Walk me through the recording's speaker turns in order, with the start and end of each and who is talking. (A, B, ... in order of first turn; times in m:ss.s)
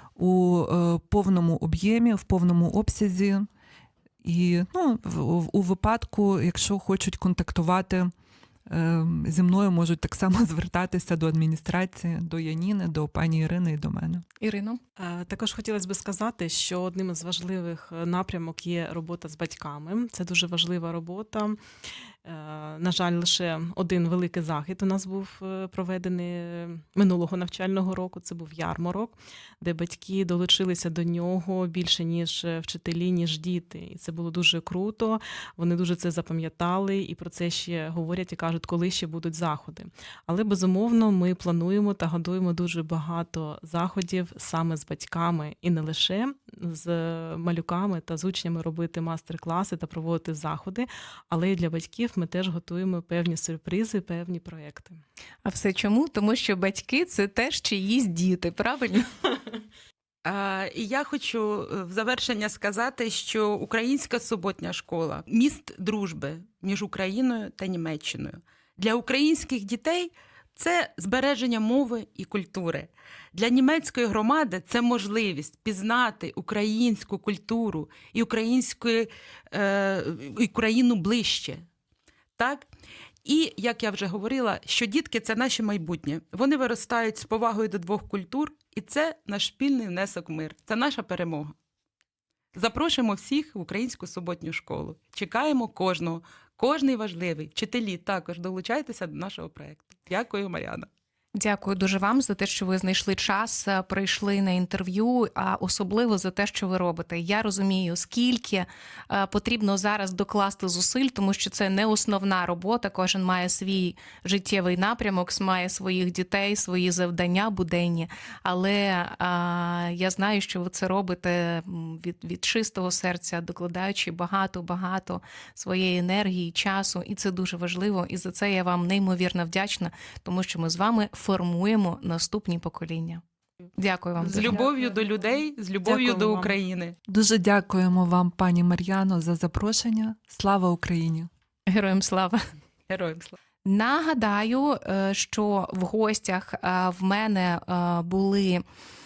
0:00.2-0:03.5 A
0:04.2-0:08.1 A
0:08.7-0:14.2 A
0:14.4-0:14.8 B
0:15.0-0:21.6 C
0:22.2-0:55.0 C
0:55.4-0:59.1 B
1:00.2-1:21.6 D
1:22.4-1:22.7 D
1:23.2-1:31.5 D
1:32.5-1:40.9 D
1:41.4-2:13.2 B
2:13.8-2:14.6 B
2:14.2-2:17.0 D
2:14.3-2:15.2 C
2:15.8-2:16.6 C
2:17.1-2:21.3 A
2:21.7-2:22.4 B
2:22.9-2:23.4 D
2:23.6-2:28.6 B